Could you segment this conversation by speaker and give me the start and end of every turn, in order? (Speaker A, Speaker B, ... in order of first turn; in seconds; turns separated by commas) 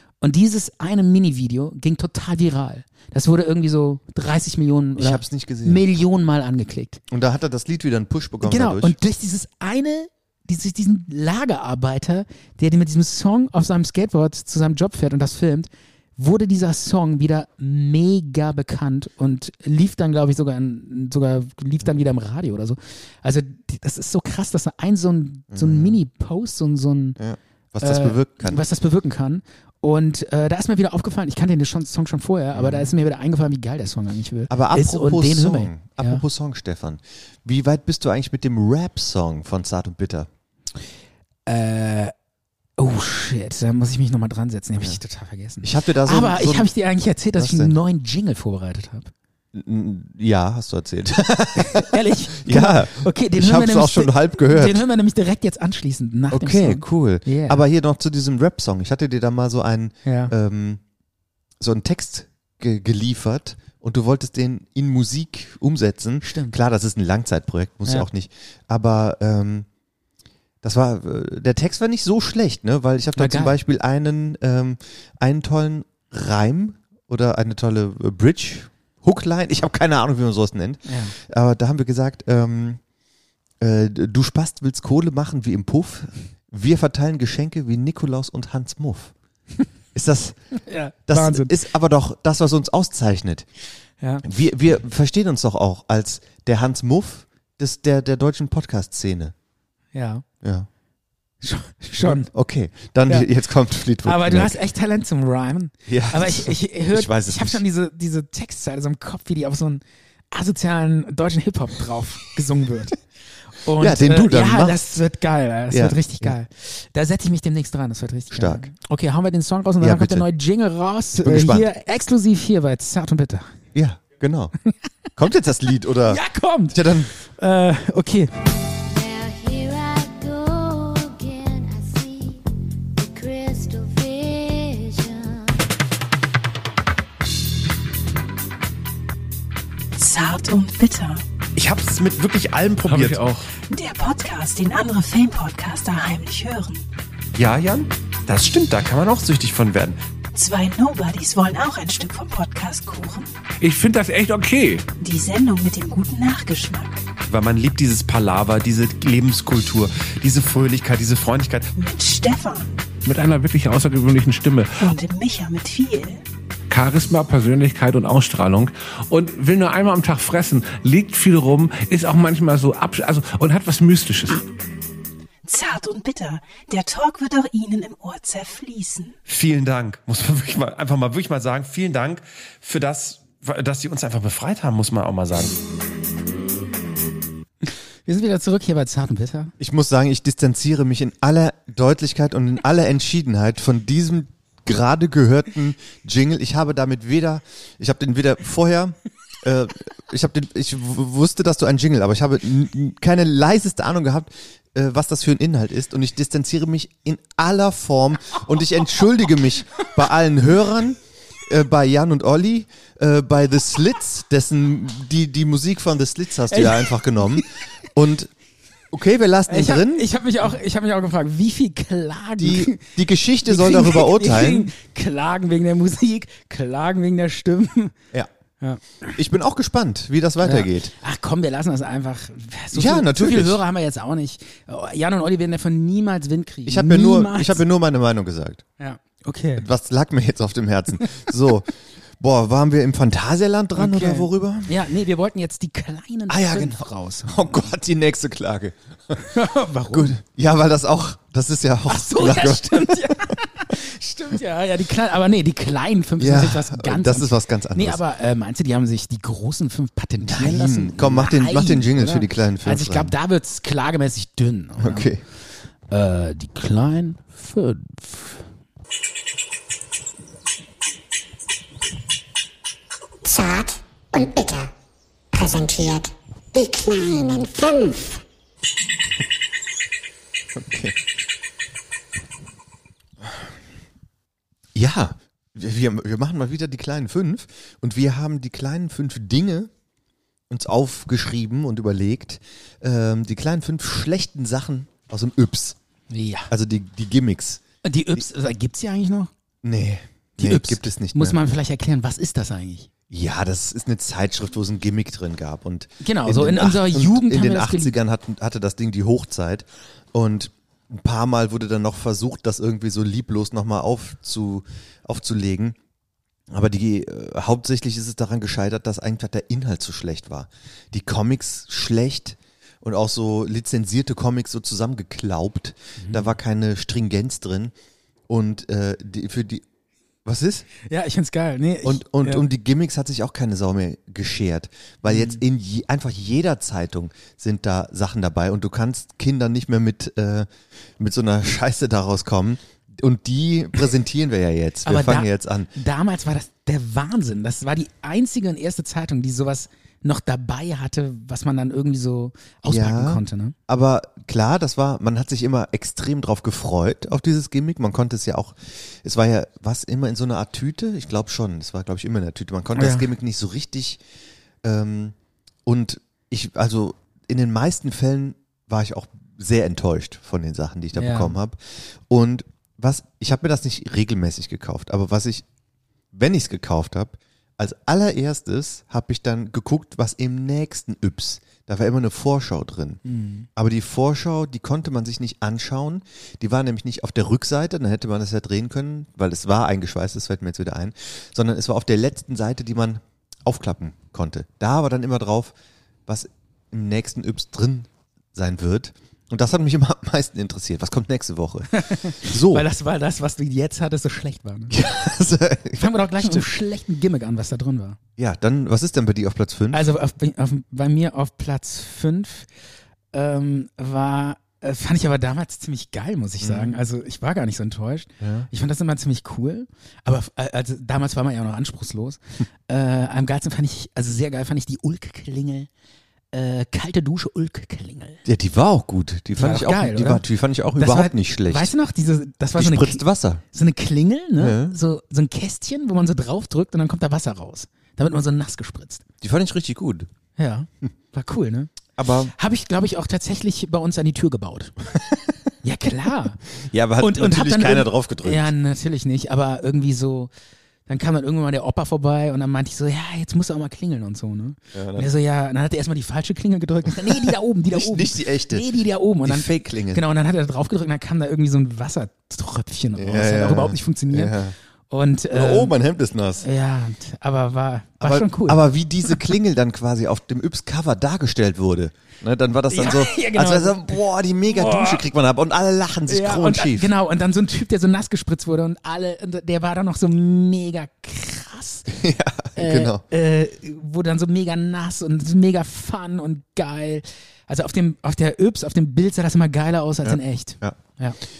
Speaker A: 0.2-7.0, Speaker B: 5.0-5.8, Speaker B: 7.1-8.9, Speaker A: 8.4-27.2, Speaker B: 25.5-26.0, Speaker B: 27.2-28.6, Speaker A: 27.8-36.2, Speaker B: 32.5-32.9, Speaker B: 34.5-40.3, Speaker A: 41.5-42.1, Speaker A: 42.8-49.1, Speaker B: 45.6-46.7, Speaker B: 47.4-47.8, Speaker B: 49.5-54.8, Speaker A: 51.6-57.6, Speaker B: 56.3-60.8, Speaker A: 60.0-60.3, Speaker B: 61.6-69.7, Speaker A: 66.2-66.5, Speaker B: 70.6-82.8, Speaker A: 73.2-73.6, Speaker A: 80.9-81.2, Speaker B: 83.6-89.1, Speaker B: 89.9-90.4, Speaker A: 90.6-91.5, Speaker B: 91.1-93.5, Speaker B: 94.2-99.3, Speaker A: 99.9-100.2, Speaker A: 101.4-102.3, Speaker B: 102.0-104.6, Speaker A: 104.0-113.0, Speaker B: 105.9-107.6, Speaker A: 113.5-123.5, Speaker B: 113.8-114.8, Speaker B: 115.7-116.3, Speaker B: 118.3-118.7, Speaker B: 119.8-120.3, Speaker B: 121.2-121.7, Speaker B: 123.7-124.5, Speaker B: 125.2-127.1, Speaker A: 126.1-128.3, Speaker C: 128.8-132.4, Speaker C: 132.9-135.5, Speaker D: 139.9-141.2, Speaker B: 141.6-143.1, Speaker E: 142.8-143.5, Speaker D: 143.7-146.8, Speaker F: 147.4-149.8, Speaker B: 148.5-149.9, Speaker D: 150.3-153.3, Speaker E: 153.6-154.8, Speaker D: 155.0-157.0, Speaker F: 157.3-161.7, Speaker D: 161.7-162.7, Speaker E: 163.0-164.9, Speaker D: 164.8-166.2, Speaker E: 166.7-174.4, Speaker D: 175.4-179.2, Speaker F: 179.3-185.5, Speaker A: 187.6-189.5, Speaker B: 189.6-218.3, Speaker A: 216.5-217.4, Speaker B: 218.9-220.1, Speaker A: 219.5-222.9, Speaker B: 222.4-224.7, Speaker A: 223.4-227.9, Speaker A: 228.6-229.2, Speaker B: 229.1-230.9, Speaker A: 230.4-237.6, Speaker B: 232.7-233.6, Speaker B: 236.7-238.6, Speaker A: 238.8-239.7, Speaker B: 239.6-244.7, Speaker A: 243.8-247.4, Speaker B: 246.3-249.3, Speaker A: 249.2-250.2, Speaker B: 249.9-253.4, Speaker A: 251.9-265.1, Speaker B: 256.2-258.0, Speaker B: 260.2-263.1, Speaker B: 264.8-265.2, Speaker A: 265.9-268.4, Speaker G: 273.2-274.7, Speaker G: 275.3-278.2, Speaker B: 280.5-280.9, Speaker B: 284.7-289.7, Speaker B: 290.5-295.8, Speaker A: 296.1-296.5, Speaker B: 296.5-297.6, Speaker A: 297.8-299.3, Speaker B: 299.6-301.4, Speaker A: 300.4-302.9, Speaker B: 303.1-315.8, Speaker A: 306.0-307.9, Speaker B: 316.5-327.7, Speaker A: 326.0-326.3, Speaker B: 328.3-329.6, Speaker B: 330.2-330.7, Speaker A: 330.8-332.4, Speaker B: 331.8-340.5, Speaker A: 335.1-335.4, Speaker B: 341.0-345.7, Speaker A: 344.8-353.6, Speaker B: 352.6-364.0, Speaker A: 362.7-363.1, Speaker B: 364.6-365.1, Speaker B: 365.6-375.4, Speaker A: 370.9-371.3, Speaker B: 376.1-383.0, Speaker A: 383.0-383.5, Speaker B: 383.6-395.6, Speaker B: 396.1-402.7, Speaker A: 401.7-404.8, Speaker B: 404.7-406.5, Speaker A: 405.8-408.0, Speaker B: 408.2-409.9, Speaker A: 409.7-412.5, Speaker A: 413.1-425.7, Speaker B: 416.4-416.8, Speaker B: 418.2-418.5, Speaker A: 426.3-428.2, Speaker B: 428.2-431.7, Speaker A: 429.4-430.2, Speaker A: 430.8-439.0, Speaker B: 432.6-433.4, Speaker B: 434.4-434.8, Speaker B: 439.2-440.1, Speaker A: 440.4-441.7, Speaker B: 442.0-442.3, Speaker A: 442.3-444.7, Speaker A: 445.6-446.4, Speaker B: 446.6-448.5, Speaker A: 447.0-450.3, Speaker A: 450.9-464.3, Speaker B: 454.7-455.1, Speaker B: 457.0-458.7, Speaker B: 459.2-460.0, Speaker B: 462.9-464.6, Speaker A: 464.9-465.7, Speaker B: 465.3-466.4, Speaker A: 466.4-469.1, Speaker B: 468.0-476.9, Speaker A: 472.7-475.0, Speaker A: 476.1-481.9, Speaker B: 481.9-483.0, Speaker A: 482.6-491.2, Speaker B: 490.0-490.8